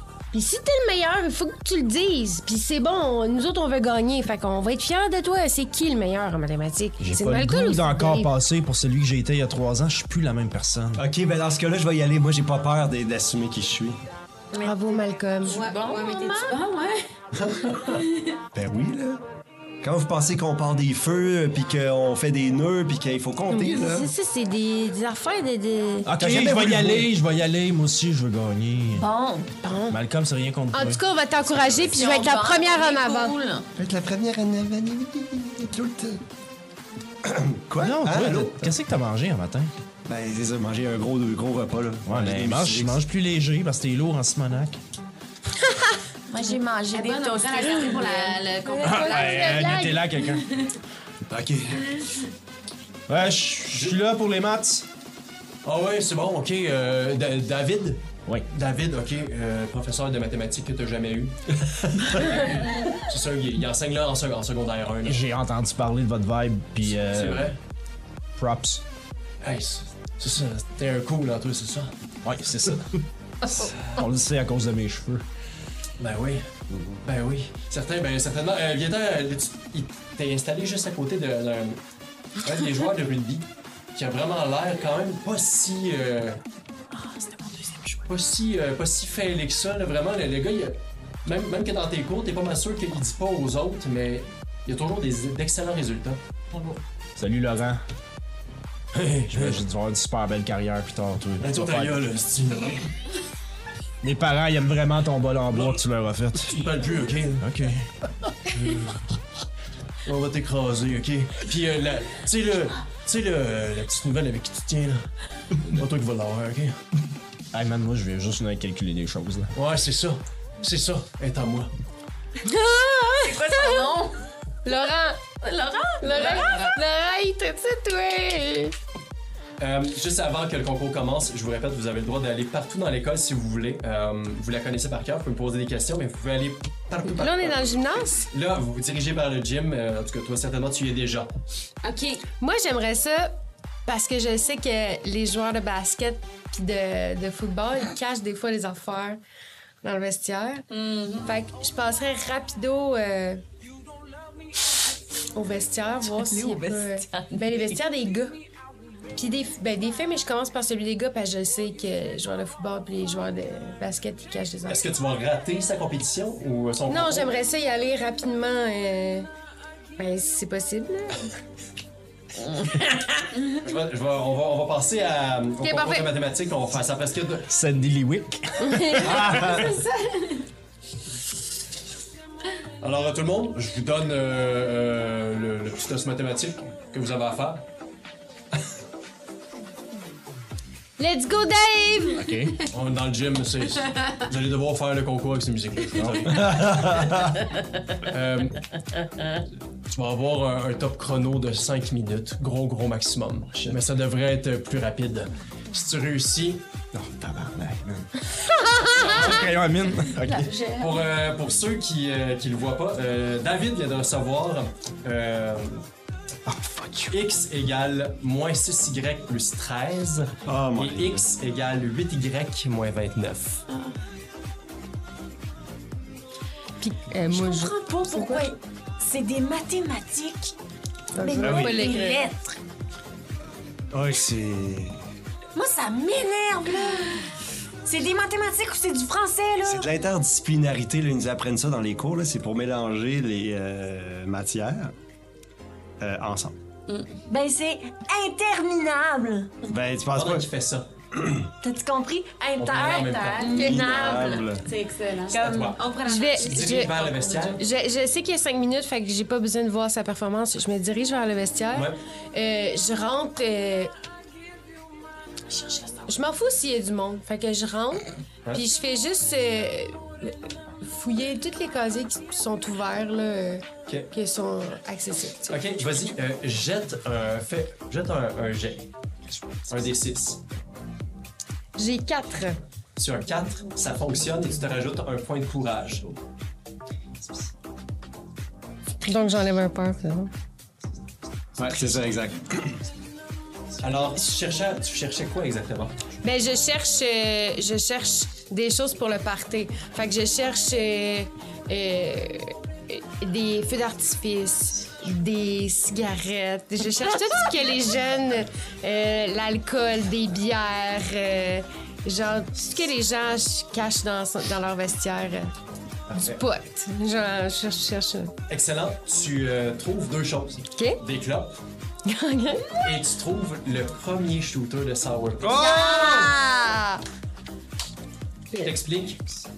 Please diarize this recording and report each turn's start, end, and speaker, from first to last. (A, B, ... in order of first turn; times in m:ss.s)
0:00.3-0:08.3 A
0:07.0-0:11.0 B
0:11.0-0:14.0 C
0:14.5-0:14.8 D
0:14.6-0:15.6 A
0:15.4-0:16.6 D
0:15.4-0:17.0 E
0:17.5-0:18.0 C
0:18.5-0:19.2 C
0:19.8-0:24.1 C
0:23.5-0:26.1 A
0:26.0-0:29.1 B
0:26.1-0:27.1 C
0:29.0-0:29.5 D
0:29.6-0:30.0 A
0:29.9-0:32.0 B
0:30.7-0:33.4 A
0:31.9-0:33.7 D
0:33.8-0:36.2 C
0:37.2-0:38.8 C
0:37.8-0:39.7 B
0:40.1-0:43.0 C
0:42.1-0:44.8 B
0:45.6-0:45.9 A
0:46.3-0:48.5 D
0:46.9-0:50.3 E
0:48.8-0:49.9 A
0:48.8-0:50.5 B
0:51.3-0:51.9 C
0:53.1-0:54.9 B
0:53.7-0:54.0 F
0:55.6-1:05.2 F
1:05.0-1:07.6 B
1:06.8-1:07.6 F
1:08.4-1:08.8 B
1:09.4-1:12.0 F
1:12.2-1:15.2 B
1:13.5-1:14.1 F
1:16.0-1:16.5 F
1:16.7-1:17.0 C
1:17.0-1:21.8 F
1:22.4-1:26.4 F
1:26.9-1:28.1 D
1:28.1-1:36.2 F
1:37.2-1:37.8 B
1:38.9-1:39.6 F
1:39.3-1:42.0 B
1:41.4-1:42.9 F
1:44.0-1:46.6 B
1:45.5-1:45.8 F
1:46.5-1:47.5 F
1:47.4-1:47.9 B
1:48.5-1:49.1 F
1:50.0-1:55.1 F
1:55.6-1:56.8 F
1:57.5-1:59.5 B
1:59.6-2:01.7 F
2:02.4-2:03.9 A
2:03.2-2:04.2 D
2:04.6-2:05.2 A
2:05.4-2:06.8 D
2:06.0-2:08.8 A
2:06.1-2:06.5 F
2:09.6-2:21.3 F
2:17.1-2:18.3 A
2:21.8-2:22.2 E
2:22.4-2:23.4 A
2:23.9-2:29.2 A
2:29.8-2:30.7 A
2:30.8-2:31.1 E
2:31.2-2:33.4 A
2:35.3-2:38.4 A
2:36.0-2:37.8 D
2:39.1-2:44.8 A
2:44.7-2:47.4 F
2:46.9-2:49.3 A
2:50.0-2:51.3 A
2:53.5-2:57.5 F
2:55.6-2:56.1 A
2:57.5-2:59.8 B
2:58.6-2:59.7 A
2:59.0-2:59.7 C
3:02.8-3:07.7 F
3:11.0-3:12.4 A
3:12.2-3:12.6 B
3:12.7-3:17.3 F
3:15.9-3:16.7 B
3:16.3-3:17.2 C
3:18.0-3:18.7 F
3:19.9-3:26.6 F
3:26.9-3:28.1 B
3:28.7-3:29.3 A
3:28.9-3:30.5 B
3:29.0-3:29.5 D
3:30.1-3:31.1 D
3:30.8-3:35.8 F
3:36.5-3:37.2 B
3:37.1-3:43.6 F
3:40.5-3:41.3 C
3:46.8-3:48.5 A
3:47.3-3:50.6 D
3:51.1-3:52.2 A
3:51.2-3:52.6 D
3:51.4-3:52.0 C
3:53.9-3:55.0 C
3:55.6-3:57.3 D
3:57.8-3:59.9 D
3:59.6-4:05.0 C
4:06.0-4:06.6 C
4:07.2-4:09.6 D
4:09.7-4:10.5 C
4:10.1-4:10.9 F
4:11.1-4:11.4 C
4:11.6-4:14.6 D
4:12.6-4:13.6 F
4:13.4-4:17.6 E
4:13.6-4:14.7 C
4:15.3-4:15.8 D
4:15.4-4:17.6 F
4:16.0-4:17.0 A
4:17.6-4:23.9 A
4:21.7-4:22.0 F
4:25.5-4:26.1 D
4:26.1-4:35.7 A
4:35.5-4:38.9 F
4:39.7-4:40.4 F
4:41.8-4:42.6 A
4:43.0-4:46.2 F
4:49.0-4:50.3 A
4:51.6-4:52.8 C
4:53.8-4:56.0 F
4:56.2-5:15.5 A
5:16.1-5:16.4 F
5:16.1-5:18.3 A
5:18.5-5:21.6 F
5:22.0-5:22.9 A
5:22.8-5:25.8 F
5:25.4-5:26.3 C
5:25.5-5:27.0 A
5:28.6-5:29.2 F